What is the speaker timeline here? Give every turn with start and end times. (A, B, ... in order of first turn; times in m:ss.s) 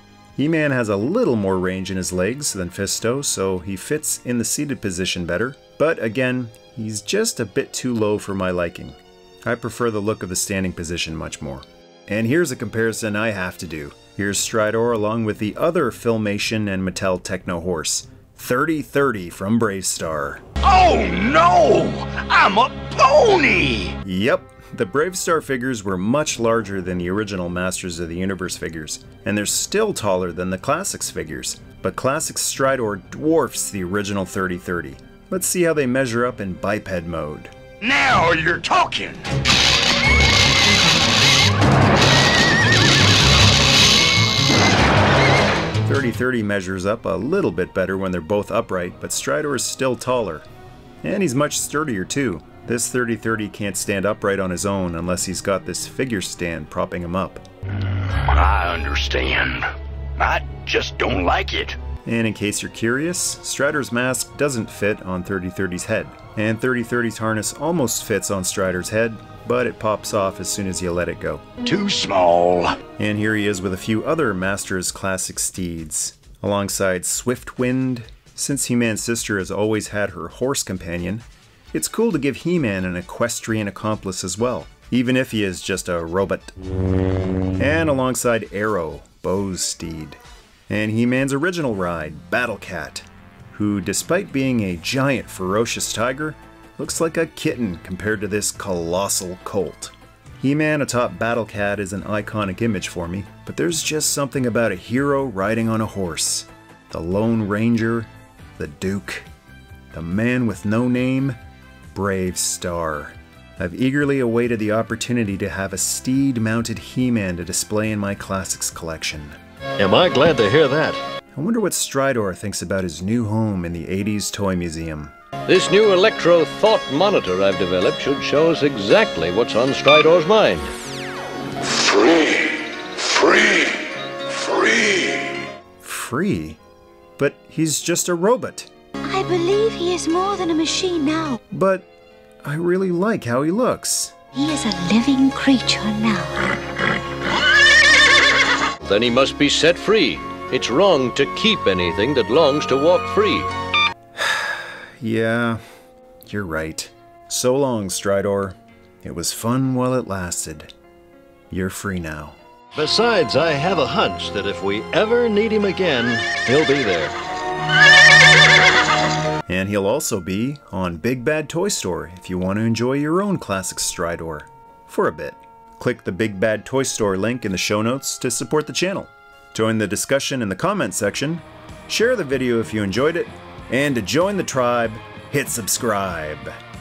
0:00.4-0:20.4 A
0:20.6-0:23.9 B
0:24.0-0:37.5 A
0:37.8-0:39.2 B
0:45.8-0:50.4 A
0:51.0-0:57.4 A
0:58.2-1:01.8 B
1:02.0-1:11.4 A
1:11.6-1:12.8 B
1:13.0-1:26.5 A
1:27.6-1:49.3 A
1:49.9-1:51.4 A
1:51.9-1:59.4 A
1:59.8-2:01.0 C
2:01.3-2:05.1 A
2:05.4-2:10.7 D
2:11.9-2:12.5 B
2:13.0-2:13.5 D
2:14.5-2:15.0 D
2:15.8-2:16.6 A
2:17.2-2:18.7 A
2:19.0-2:21.4 E
2:21.5-2:21.9 A
2:22.4-2:24.2 A
2:24.3-2:26.4 E
2:28.8-2:33.5 D
2:34.2-2:35.6 A
2:36.2-2:40.7 A
2:41.5-2:42.4 A
2:42.7-2:47.2 C
2:49.5-3:06.5 A